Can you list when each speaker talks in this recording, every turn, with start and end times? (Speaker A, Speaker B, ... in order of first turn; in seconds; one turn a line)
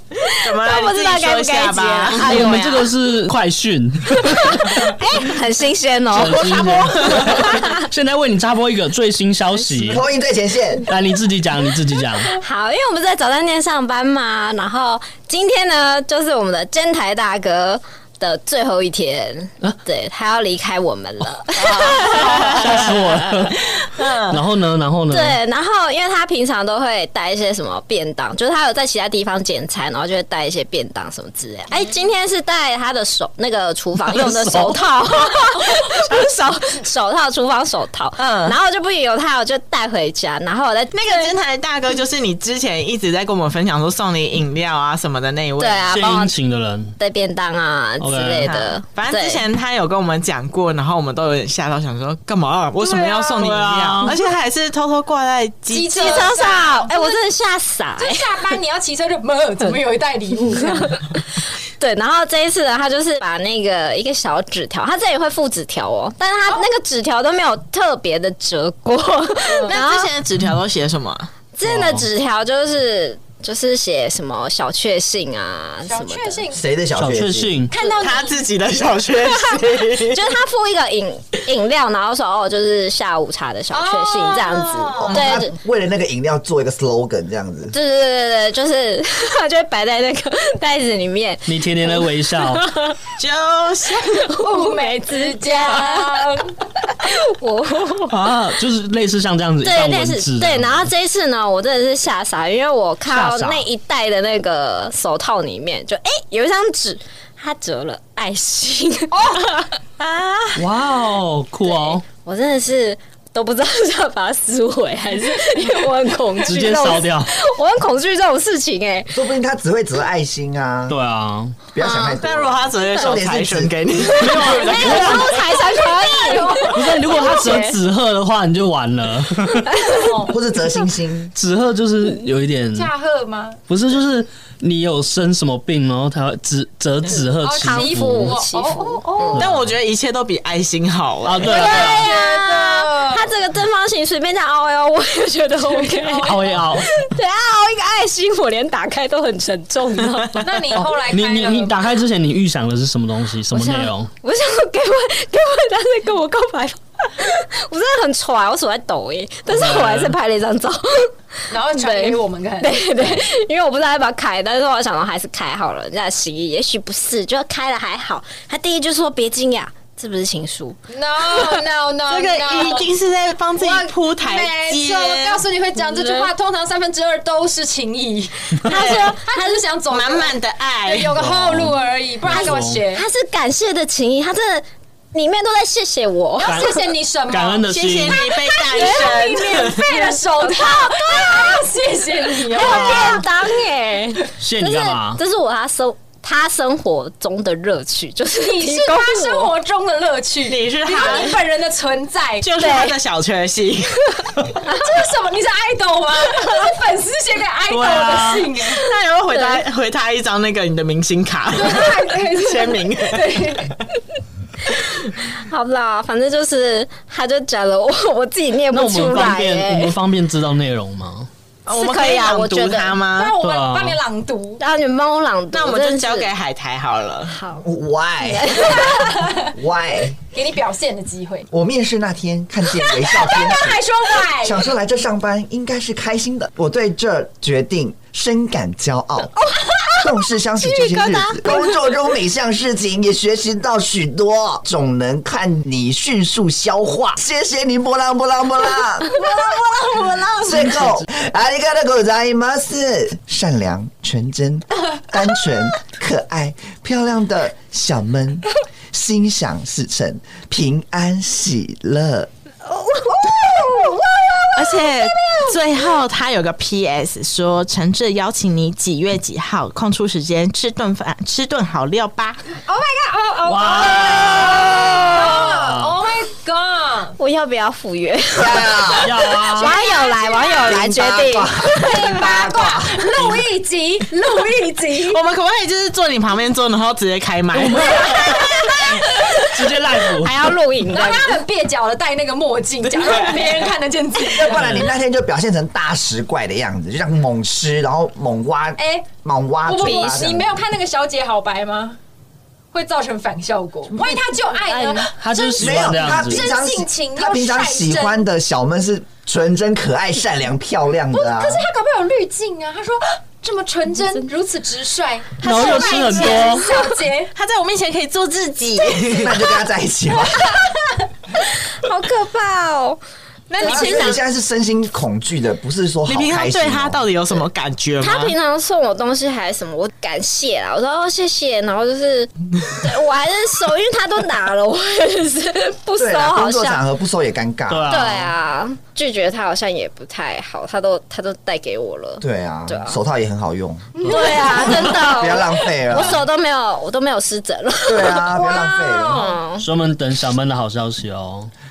Speaker A: 0.2-2.9
Speaker B: 0.4-2.6
Speaker C: 2.1-4.9
Speaker A: 4.5-7.8
Speaker C: 6.1-10.0
Speaker D: 9.9-10.8
Speaker C: 10.9-12.3
Speaker A: 12.3-23.2
Speaker B: 21.6-22.9
Speaker C: 22.3-23.6
Speaker B: 23.8-24.4
Speaker C: 24.3-25.4
Speaker A: 25.1-41.4
Speaker C: 34.1-34.9
Speaker B: 38.2-38.5
Speaker B: 40.9-46.0
Speaker A: 45.6-46.3
Speaker C: 45.9-46.9
Speaker A: 47.0-49.4
Speaker C: 48.0-48.5
Speaker B: 48.4-56.3
Speaker E: 52.8-53.5
Speaker C: 53.4-54.1
Speaker E: 55.7-57.2
Speaker A: 55.9-58.3
Speaker E: 58.0-61.0
Speaker A: 61.8-70.1
Speaker E: 69.5-69.8
Speaker B: 69.7-71.3
Speaker A: 71.5-76.4
Speaker C: 71.6-72.1
Speaker E: 75.8-76.7
Speaker D: 76.5-77.5
Speaker C: 76.9-77.7
Speaker E: 77.7-78.5
Speaker B: 78.0-80.2
Speaker A: 79.5-85.6
Speaker E: 83.7-85.3
Speaker D: 84.9-87.7
Speaker A: 87.7-93.0
Speaker C: 91.5-92.6
Speaker B: 93.2-94.2
Speaker A: 94.0-96.1
Speaker E: 94.4-96.5
Speaker A: 97.0-98.2
Speaker C: 98.1-100.9
Speaker A: 99.6-110.6
Speaker C: 103.1-103.7
Speaker C: 110.5-112.0
Speaker A: 111.6-119.2
Speaker C: 116.4-117.3
Speaker D: 119.1-121.0
Speaker C: 120.9-121.5
Speaker D: 121.7-123.9
Speaker A: 121.8-122.2
Speaker B: 122.2-125.1
Speaker A: 124.1-127.7
Speaker C: 124.1-125.3
Speaker E: 124.5-127.6
Speaker C: 126.7-129.9
Speaker E: 129.9-130.4
Speaker D: 130.3-131.3
Speaker C: 131.3-132.9
Speaker E: 132.7-133.6
Speaker C: 133.7-138.4
Speaker E: 137.3-139.5
Speaker A: 137.6-139.4
Speaker B: 139.3-141.5
Speaker C: 139.4-139.7
Speaker C: 141.2-142.1
Speaker E: 141.4-143.3
Speaker A: 141.4-150.8
Speaker E: 145.6-146.8
Speaker C: 146.2-146.9
Speaker E: 150.4-151.9
Speaker C: 150.8-154.1
Speaker A: 153.5-161.1
Speaker C: 159.5-160.1
Speaker E: 161.5-162.8
Speaker A: 161.7-170.8
Speaker E: 170.9-172.9
Speaker B: 172.1-175.4
Speaker E: 173.6-183.0
Speaker A: 175.8-176.3
Speaker A: 178.6-179.6
Speaker B: 179.9-181.1
Speaker C: 181.1-182.8
Speaker A: 182.3-186.7
Speaker E: 186.4-193.2
Speaker C: 186.4-188.2
Speaker B: 187.7-189.9
Speaker A: 188.7-189.2
Speaker A: 189.8-191.3
Speaker A: 192.5-199.5
Speaker C: 192.6-193.2
Speaker C: 194.4-195.2
Speaker E: 198.4-202.6
Speaker B: 200.4-201.4
Speaker A: 201.0-201.3
Speaker B: 202.4-204.2
Speaker A: 202.6-203.0
Speaker E: 204.6-208.8
Speaker C: 207.7-208.5
Speaker B: 208.7-213.4
Speaker A: 209.3-209.6
Speaker E: 211.5-213.8
Speaker A: 215.2-220.0
Speaker C: 218.7-221.3
Speaker B: 221.7-223.3
Speaker A: 221.7-223.0
Speaker E: 223.1-224.6
Speaker C: 223.4-224.0
Speaker A: 224.6-226.3
Speaker B: 225.5-227.3
Speaker A: 227.3-227.7
Speaker D: 227.6-228.8
Speaker A: 228.2-229.2
Speaker E: 228.7-229.5
Speaker D: 229.4-230.2
Speaker E: 230.3-231.5
Speaker D: 231.5-239.3
Speaker E: 232.7-234.7
Speaker A: 239.6-240.1
Speaker D: 239.9-249.1
Speaker A: 240.6-241.8
Speaker B: 249.8-250.8
Speaker D: 250.4-262.3
Speaker A: 262.7-265.4
Speaker B: 264.6-272.4
Speaker E: 272.7-277.1
Speaker C: 273.4-275.9
Speaker A: 273.7-275.5
Speaker A: 277.2-281.9
Speaker D: 278.4-279.1
Speaker C: 279.0-279.8
Speaker E: 279.1-280.7
Speaker D: 280.6-283.1
Speaker E: 281.7-285.2
Speaker C: 283.2-283.4
Speaker B: 285.0-287.9
Speaker C: 287.5-290.5
Speaker A: 288.1-289.4
Speaker E: 288.9-289.5
Speaker A: 290.2-291.4
Speaker E: 290.9-294.8
Speaker D: 294.2-300.5
Speaker C: 294.5-294.9
Speaker E: 298.8-299.1
Speaker E: 299.6-302.0
Speaker A: 299.8-300.2
Speaker E: 302.7-308.2
Speaker A: 304.6-305.1
Speaker C: 305.2-306.4
Speaker D: 305.6-311.6
Speaker E: 311.1-317.3
Speaker C: 315.4-316.7
Speaker A: 315.4-316.9
Speaker B: 317.3-319.3
Speaker D: 319.1-320.6
Speaker E: 320.5-320.9
Speaker A: 321.8-323.0
Speaker B: 323.5-324.2
Speaker D: 323.6-327.0
Speaker A: 323.6-324.1
Speaker B: 326.1-328.3
Speaker A: 328.0-336.8
Speaker D: 336.0-337.9
Speaker C: 337.7-338.3
Speaker A: 337.9-343.0
Speaker D: 342.2-346.2
Speaker E: 343.9-344.8
Speaker A: 344.1-348.3
Speaker D: 347.9-349.2
Speaker E: 348.3-349.4
Speaker A: 349.1-349.7
Speaker C: 349.6-351.5